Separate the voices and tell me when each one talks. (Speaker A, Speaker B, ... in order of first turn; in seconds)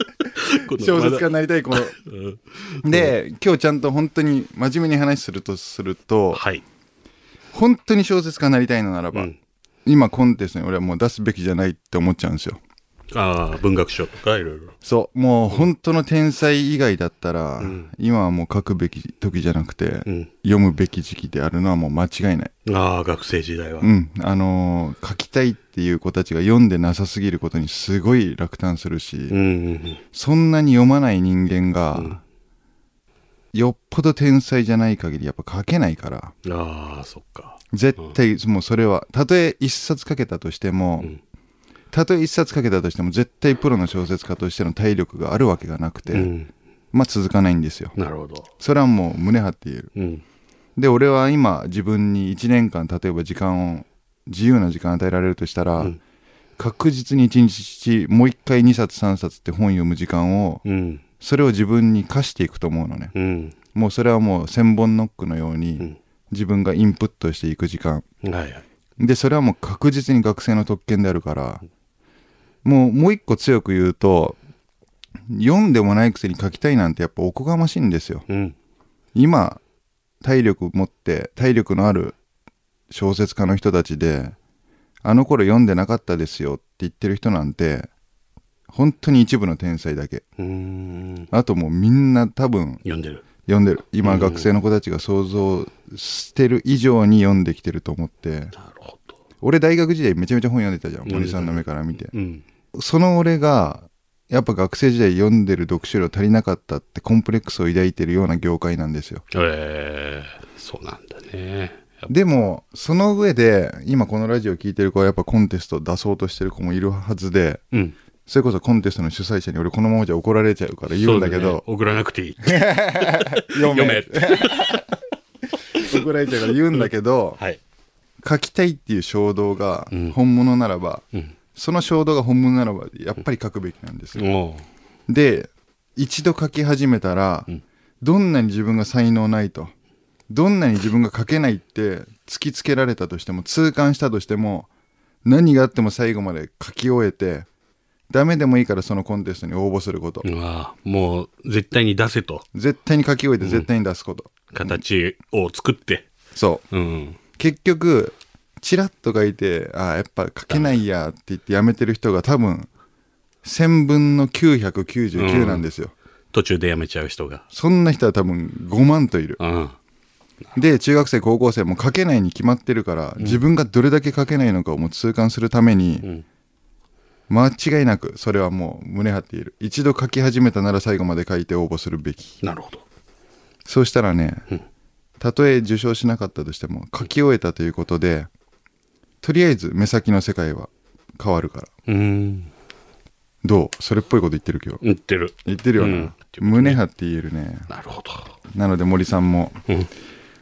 Speaker A: 0.4-1.3, 2.1-3.1, 6.3-6.6, 13.1-14.7, 17.6-17.9, 22.7-23.9, 29.3-30.0, 36.4-38.1, 46.1-46.5, 48.0-48.5, 50.0-50.2, 60.6-61.0, 63.1-63.6, 68.2-68.7, 78.3-78.6, 90.4-91.3, 92.8-93.2, 94.0-94.5, 98.5-99.2, 101.1-102.4, 109.3-112.1, 121.0-124.8, 134.2-134.7, 150.2-152.4, 153.4-153.7, 154.5-156.1, 156.7-157.2, 160.5-160.8, 165.2-165.7, 166.3-167.4, 169.4-169.8, 173.2-173.4, 182.4-182.8, 191.9-192.5, 194.8-196.8, 197.7-198.3
Speaker B: 0.8-2.0, 2.8-6.4, 7.5-9.3, 9.8-12.6, 14.8-22.5, 23.8-29.4, 30.1-32.2, 33.5-36.4, 37.7-41.1, 41.9-46.3, 46.9-48.0, 48.6-49.9, 50.8-56.0, 56.6-60.6, 61.2-63.1, 63.7-68.0, 69.0-71.6, 72.6-74.4, 75.3-78.3, 79.2-79.6, 80.2-82.2, 82.9-84.3, 85.0-87.9, 88.7-90.2, 91.3-92.8, 93.5-98.5, 99.4-102.1, 102.7-109.2, 112.1-117.6, 118.3-121.6, 122.4-124.9, 125.8-127.4, 128.2-131.0, 131.6-134.3, 135.1-137.5, 138.0-139.7, 140.3-144.7, 145.2-147.4, 148.1-150.3, 152.5-154.8, 156.3-156.7, 157.4-162.7, 163.4-165.9, 167.5-169.4, 170.6-176.1, 177.3-182.4, 183.7-184.4, 185.2-188.3, 189.2-191.7, 193.4-194.8, 195.4-197.7, 198.5-199.6